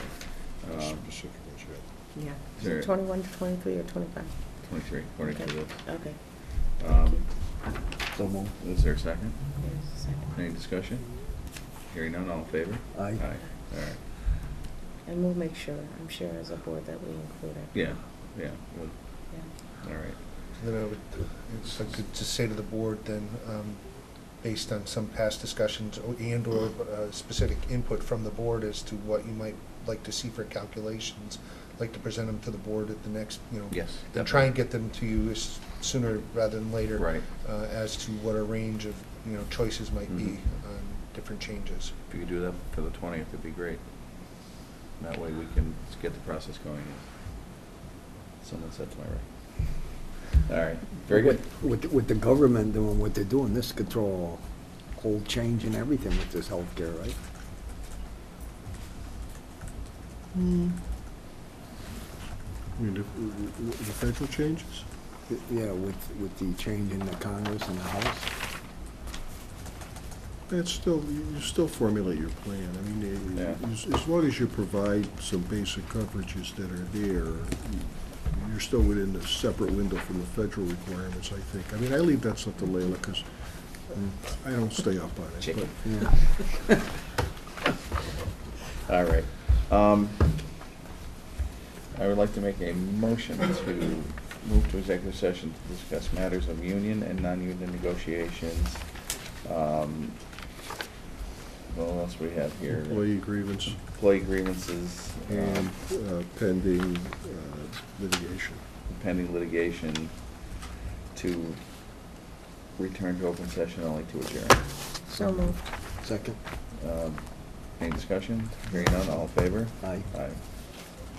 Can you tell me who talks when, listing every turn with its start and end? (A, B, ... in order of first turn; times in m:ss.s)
0:00.6-0:01.1 A
0:00.7-0:01.8 B
0:02.5-0:04.4 C
0:02.6-0:02.9 A
0:04.6-0:07.2 A
0:05.2-0:07.2 C
0:08.1-0:08.5 D
0:08.6-0:09.7 A
0:09.6-0:10.3 C
0:10.3-0:11.3 A
0:11.8-0:14.0 A
0:13.0-0:13.2 D
0:15.0-0:17.7 C
0:17.7-0:20.2 A
0:20.6-0:41.9 E
0:33.7-0:34.4 A
0:37.0-0:37.3 A
0:40.1-0:40.4 A
0:42.1-0:43.8 A
0:45.0-0:47.0 A
0:48.4-0:49.9 A
0:50.4-0:51.4 A
0:51.1-0:54.4 D
0:55.0-0:57.2 D
1:00.3-1:00.8 B
1:02.8-1:04.9 B
1:05.3-1:08.3 D
1:10.5-1:23.3 B
1:13.4-1:13.6 A
1:23.9-1:26.4 B
1:25.4-1:26.4 A
1:25.8-1:26.1 D
1:28.8-1:30.5 A
1:31.9-1:38.9 A
1:39.4-1:40.2 A
1:41.7-1:45.7 A
1:42.7-1:43.8 B
1:45.3-1:48.6 B
1:48.9-1:50.4 A
1:51.1-1:51.6 A
1:52.8-1:54.8 A
1:55.1-1:55.6 C
1:56.0-1:56.4 D
1:56.8-2:00.4 A
1:59.8-2:00.1 D